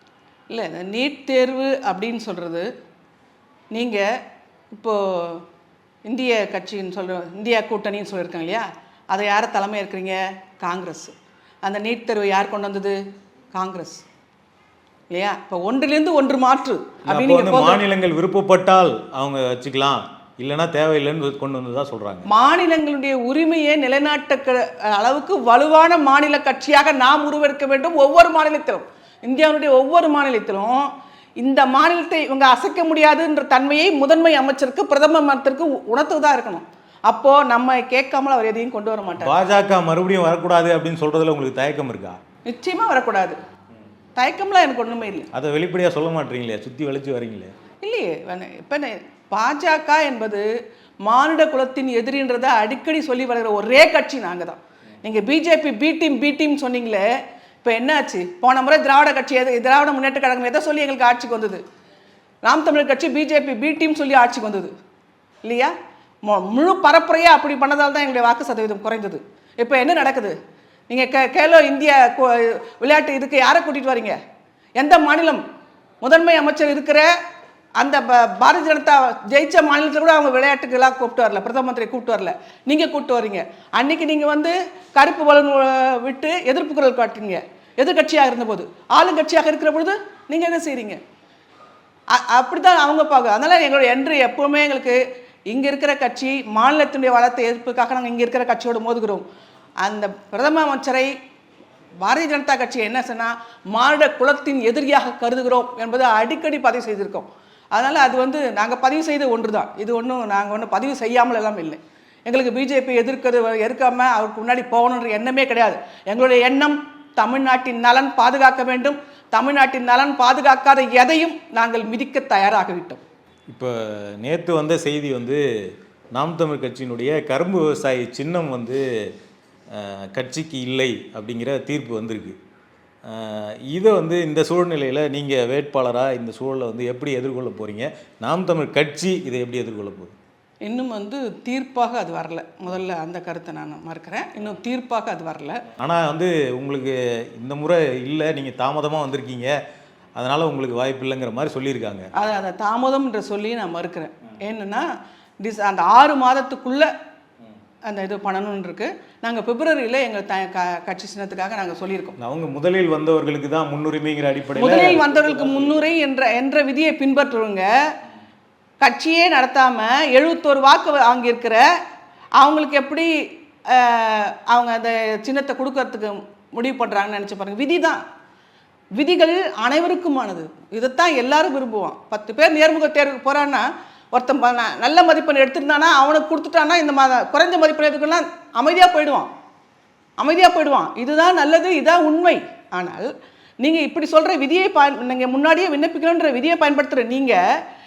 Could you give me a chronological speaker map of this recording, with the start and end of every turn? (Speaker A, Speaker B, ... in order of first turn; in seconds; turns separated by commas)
Speaker A: 0.5-2.7, Speaker A: 3.7-4.0, Speaker A: 4.7-5.4, Speaker A: 6.1-13.0, Speaker A: 13.5-14.0, Speaker A: 15.1-17.8, Speaker B: 17.1-22.3, Speaker A: 22.3-39.4, Speaker B: 39.2-42.2, Speaker A: 42.5-43.4, Speaker A: 44.1-45.3, Speaker B: 45.3-47.5, Speaker A: 47.8-50.5, Speaker A: 51.0-57.1, Speaker A: 57.6-61.6, Speaker A: 62.4-64.7, Speaker A: 65.4-65.7, Speaker A: 66.2-70.3, Speaker A: 70.9-74.2, Speaker A: 74.8-75.4, Speaker A: 76.0-77.1, Speaker A: 77.8-91.0, Speaker A: 92.1-99.2, Speaker A: 99.8-101.1, Speaker A: 102.0-123.0, Speaker B: 123.5-125.4, Speaker B: 126.1-128.8, Speaker B: 129.7-132.4, Speaker B: 133.1-140.1, Speaker A: 140.6-145.6, Speaker B: 145.8-149.6, Speaker B: 150.2-152.1, Speaker A: 152.1-154.9, Speaker A: 155.4-156.9, Speaker A: 157.8-162.1, Speaker B: 162.2-165.8, Speaker A: 164.6-167.7, Speaker A: 168.8-171.6, Speaker A: 172.4-173.1, Speaker A: 173.7-178.0, Speaker A: 178.9-189.3, Speaker A: 190.2-197.4